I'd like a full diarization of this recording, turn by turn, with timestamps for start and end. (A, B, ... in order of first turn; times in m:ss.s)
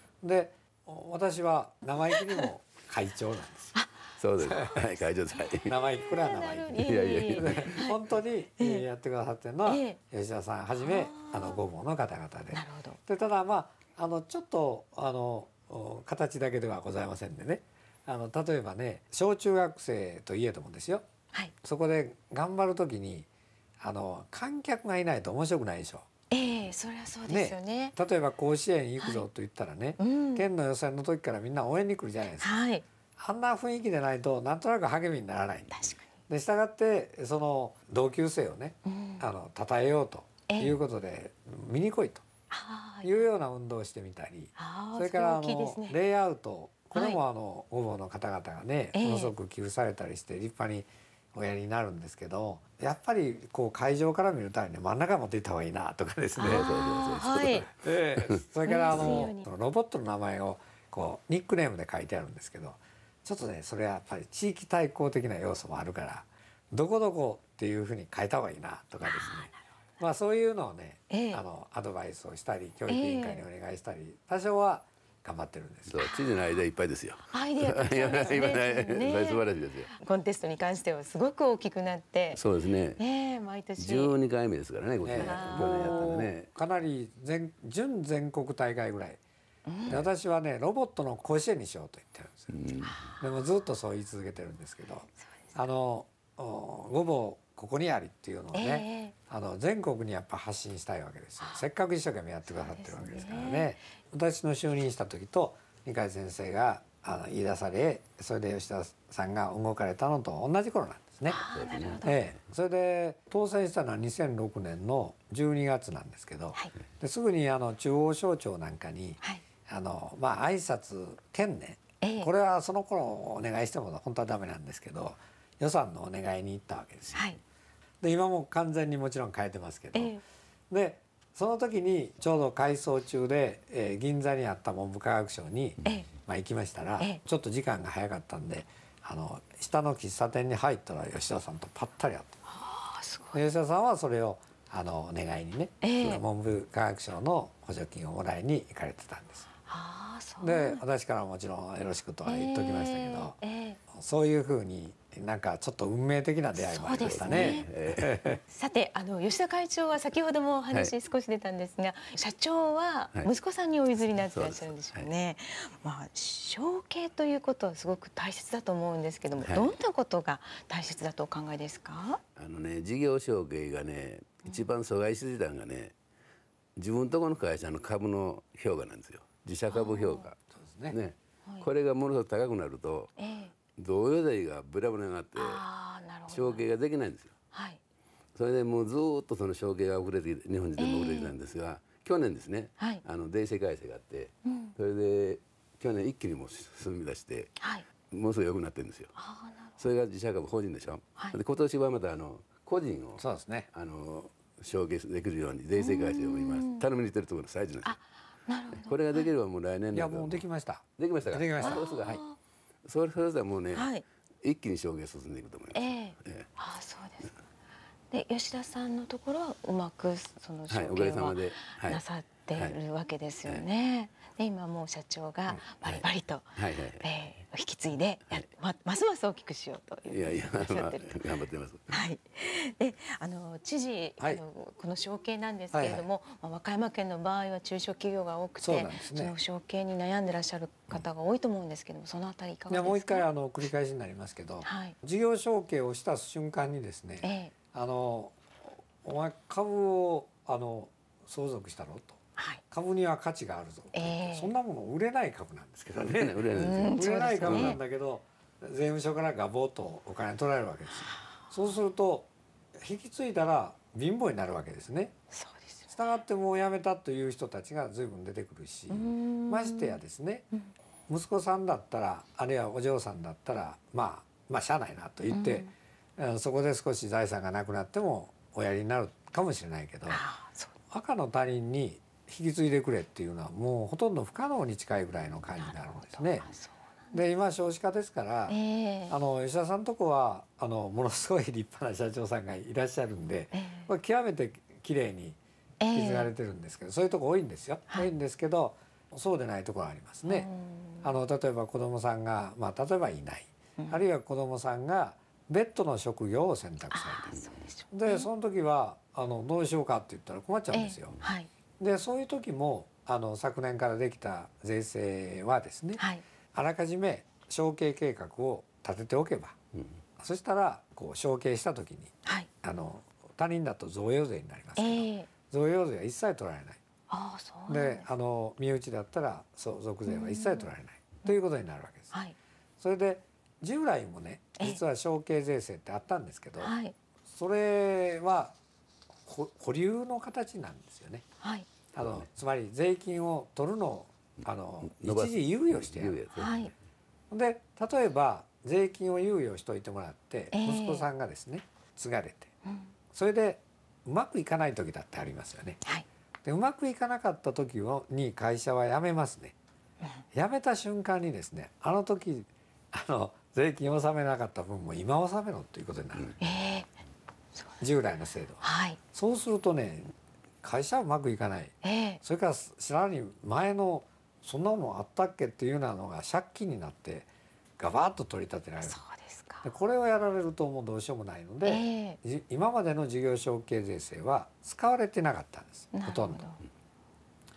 0:00.2-0:03.7 A
0:04.2-0:05.8 B
0:04.5-0:04.8 A
0:05.6-0:21.0 A
0:06.1-0:08.0 C
0:06.8-0:07.8 B
0:08.6-0:08.8 C
0:09.6-0:10.0 C
0:10.8-0:11.6 C
0:12.5-0:13.0 C
0:21.6-0:23.3 A
0:23.8-0:26.1 A
0:26.3-0:28.0 C
0:27.3-0:32.5 A
0:29.0-0:29.2 C
0:30.0-0:30.4 C
0:32.4-0:32.8 C
0:33.2-0:35.7 A
0:35.7-0:36.1 C
0:36.3-0:42.2 A
0:38.8-0:39.2 C
0:40.5-0:40.8 C
0:42.5-0:43.2 C
0:43.0-1:16.0 A
0:44.6-0:46.0 C
0:46.9-0:47.2 C
0:48.9-0:49.3 C
0:56.4-0:57.7 C
0:56.4-0:58.4 B
0:58.6-0:59.5 C
1:09.0-1:09.6 C
1:11.1-1:11.4 C
1:12.9-1:13.4 C
1:15.9-1:19.9 B
1:16.0-1:16.4 C
1:17.3-1:22.4 C
1:22.4-1:23.0 B
1:23.0-1:24.1 C
1:23.8-1:26.5 B
1:25.0-1:29.2 A
1:25.2-1:25.8 C
1:29.7-1:30.0 C
1:29.9-1:32.5 A
1:32.5-1:33.0 B
1:32.8-1:33.2 C
1:33.2-1:51.4 A
1:38.5-1:39.1 C
1:42.5-1:43.8 C
1:51.3-1:52.3 C
1:51.5-1:52.2 B
1:52.0-2:07.2 A
2:02.0-2:02.3 C
2:07.1-2:07.4 C
2:08.0-2:10.1 A
2:09.9-2:10.2 C
2:10.7-2:22.4 A
2:22.5-2:23.4 C
2:23.3-2:29.5 A
2:25.8-2:26.2 C
2:29.7-2:30.8 C
2:30.4-2:33.4 A
2:32.2-2:33.8 C
2:33.9-2:38.4 A
2:36.6-2:37.7 C
2:37.0-2:38.1 B
2:38.5-2:52.2 C
2:44.3-2:45.1 B
2:49.4-2:49.7 B
2:52.4-2:55.9 B
2:56.8-3:00.4 B
2:59.7-3:00.3 C
3:00.6-3:01.0 A
3:00.9-3:03.1 B
3:03.2-3:03.5 C
3:03.8-3:05.6 B
3:05.3-3:06.6 C
3:06.3-3:07.3 B
3:07.5-3:07.8 C
3:08.4-3:17.5 B
3:10.8-3:11.3 C
3:14.4-3:14.7 C
3:17.6-3:17.8 C
3:18.1-3:19.1 B
3:19.2-3:19.8 C
3:19.8-3:23.2 B
3:23.2-3:23.7 A
3:23.7-3:28.0 B
3:25.8-3:26.8 C
3:27.8-3:29.3 C
3:28.8-3:30.4 B
3:29.9-3:31.9 A
3:31.0-3:32.2 B
3:31.6-3:32.4 C
3:32.8-3:33.9 B
3:33.7-3:34.0 C
3:34.4-3:36.5 B
3:35.7-3:37.3 C
3:38.1-3:51.2 C
3:40.7-3:42.0 B
3:45.5-3:46.0 B
3:46.6-3:47.0 B
3:50.1-3:51.9 B
3:51.9-4:03.2 C
3:55.7-3:56.0 A
3:58.6-3:59.3 A
4:02.7-4:12.2 A
4:04.6-4:04.9 C
4:07.2-4:07.5 C
4:12.7-4:25.1 A
4:13.9-4:14.5 C
4:16.0-4:17.8 B
4:16.5-4:17.8 C
4:25.3-4:26.0 C
4:25.9-4:30.4 A
4:28.9-4:30.0 C
4:31.1-4:40.2 A
4:35.3-4:35.7 C
4:40.1-4:40.7 C
4:40.9-4:46.5 A
4:45.6-4:47.2 C
4:47.1-4:48.6 A
4:48.5-4:49.2 C
4:49.1-4:55.4 A
4:53.5-4:53.9 C
4:55.8-4:56.3 C
4:55.9-5:00.5 A
5:00.2-5:01.1 C
5:01.0-5:07.3 A
5:03.8-5:04.0 C
5:06.9-5:08.3 C
5:07.9-5:11.2 A
5:10.7-5:11.5 C
5:11.8-5:16.0 A
5:16.5-5:19.6 A
5:20.2-5:26.8 A
5:24.8-5:25.3 C
5:27.1-5:28.0 C
5:27.7-5:32.1 A
5:30.1-5:30.7 C
5:32.8-5:36.7 A
5:36.6-5:36.9 C
5:37.3-5:38.5 A
5:39.2-5:41.2 A
5:41.4-5:41.7 C
5:41.9-5:46.2 A
5:44.8-5:46.7 B
5:46.3-5:46.7 C
5:47.3-5:52.5 A
5:50.5-5:51.1 C
5:52.6-5:52.9 C
5:53.1-5:55.8 A
5:56.4-5:59.5 A
6:00.3-6:06.4 A
6:06.4-6:06.9 C
6:07.8-6:17.3 A
6:08.6-6:09.0 C
6:11.8-6:12.2 C
6:17.8-6:19.0 A
6:18.8-6:19.7 C
6:19.6-6:26.4 A
6:21.6-6:22.2 C
6:25.9-6:26.6 C